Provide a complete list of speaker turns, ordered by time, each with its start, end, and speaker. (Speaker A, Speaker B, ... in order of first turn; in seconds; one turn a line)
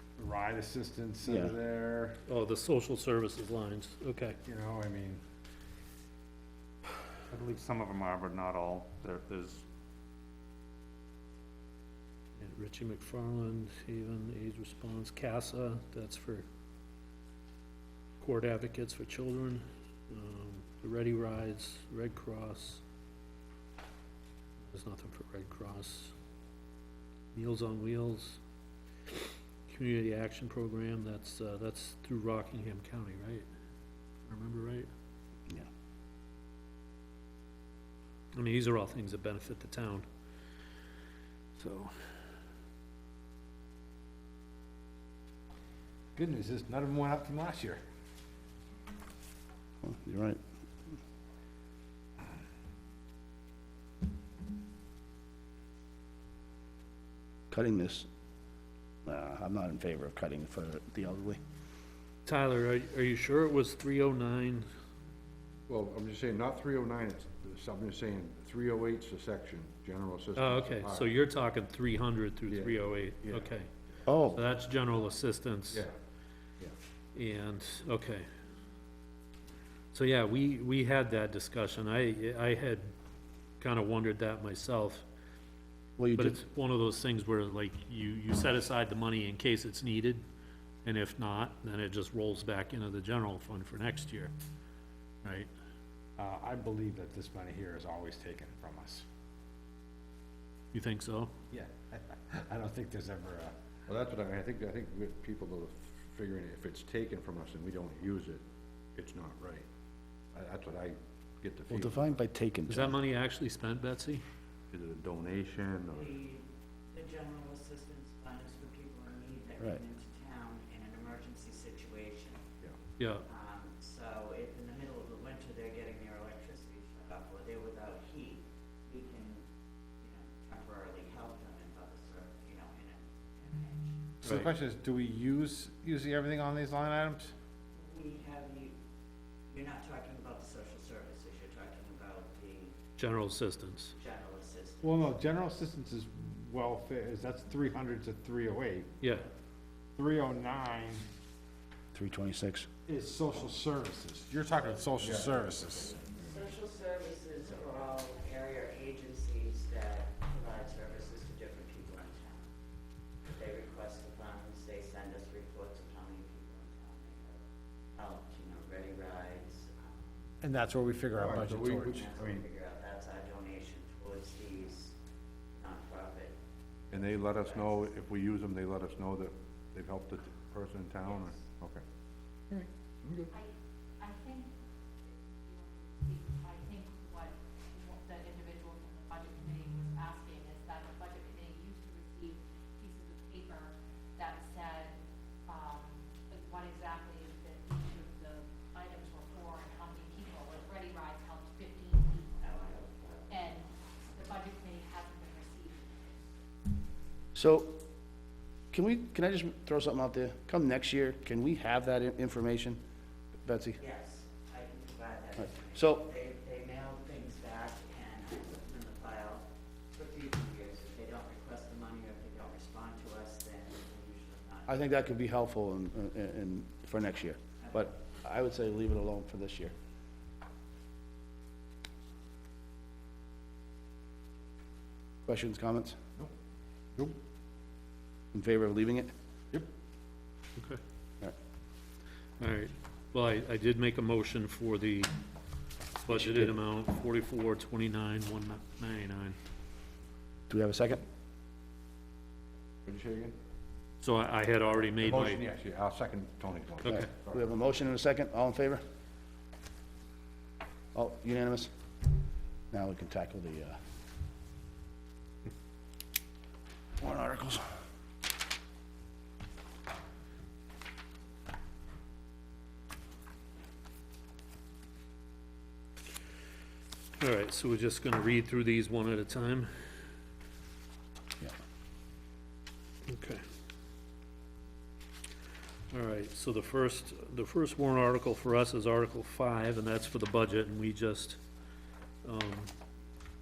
Speaker A: 0.2-2.2
Speaker B: 1.2-1.5
Speaker C: 2.2-4.4
Speaker A: 4.4-5.2
Speaker D: 7.3-9.6
Speaker C: 12.4-16.4
Speaker C: 18.2-22.8
Speaker C: 24.6-26.1
Speaker C: 27.3-28.4
Speaker C: 29.7-33.5
Speaker C: 34.2-34.9
Speaker C: 38.3-40.0
Speaker C: 41.6-41.9
Speaker A: 46.1-47.8
Speaker B: 49.8-50.4
Speaker B: 57.5-58.1
Speaker B: 59.0-61.4
Speaker C: 62.2-64.7
Speaker E: 65.7-71.0
Speaker C: 70.3-73.7
Speaker B: 74.0-74.4
Speaker C: 74.2-75.9
Speaker C: 77.1-78.3
Speaker C: 79.9-82.9
Speaker C: 83.6-85.0
Speaker B: 86.0-86.4
Speaker C: 86.2-90.2
Speaker C: 90.8-94.3
Speaker C: 95.2-95.5
Speaker A: 96.2-99.0
Speaker C: 100.7-101.3
Speaker A: 101.5-103.5
Speaker E: 103.9-108.4
Speaker E: 109.0-109.7
Speaker E: 110.3-111.8
Speaker B: 111.7-112.9
Speaker C: 112.7-114.2
Speaker E: 114.7-116.1
Speaker F: 115.9-122.4
Speaker C: 123.0-123.2
Speaker F: 123.2-129.4
Speaker F: 130.0-134.0
Speaker A: 134.2-137.3
Speaker F: 137.8-138.7
Speaker F: 139.5-142.8
Speaker C: 143.0-143.9
Speaker F: 143.9-145.1
Speaker A: 144.8-148.9
Speaker C: 149.0-149.3
Speaker A: 149.9-151.1
Speaker B: 151.9-152.7
Speaker A: 152.9-156.0
Speaker E: 155.0-155.3
Speaker F: 156.2-162.5
Speaker F: 163.3-167.4
Speaker F: 167.9-170.2
Speaker A: 170.4-172.0
Speaker E: 171.2-172.4
Speaker F: 171.7-174.9
Speaker F: 175.6-176.3
Speaker E: 176.9-181.8
Speaker F: 176.9-177.9
Speaker E: 183.0-183.3
Speaker G: 183.3-184.5
Speaker G: 185.0-202.6
Speaker F: 202.4-203.6
Speaker G: 203.3-206.1
Speaker B: 207.3-207.8
Speaker B: 208.7-212.8
Speaker B: 213.4-213.8
Speaker F: 213.8-224.7
Speaker B: 215.4-216.1
Speaker B: 224.7-229.7
Speaker B: 235.2-236.0
Speaker B: 238.3-239.1
Speaker C: 242.4-245.1
Speaker C: 246.0-249.3
Speaker B: 246.1-246.5
Speaker B: 250.5-251.0
Speaker E: 252.8-253.3
Speaker C: 254.0-255.4
Speaker E: 255.1-257.4
Speaker B: 256.8-258.8
Speaker B: 260.9-261.7
Speaker B: 262.7-263.8
Speaker B: 267.0-267.6
Speaker C: 277.2-279.7
Speaker C: 283.1-283.4
Speaker C: 285.9-291.4
Speaker C: 292.2-292.7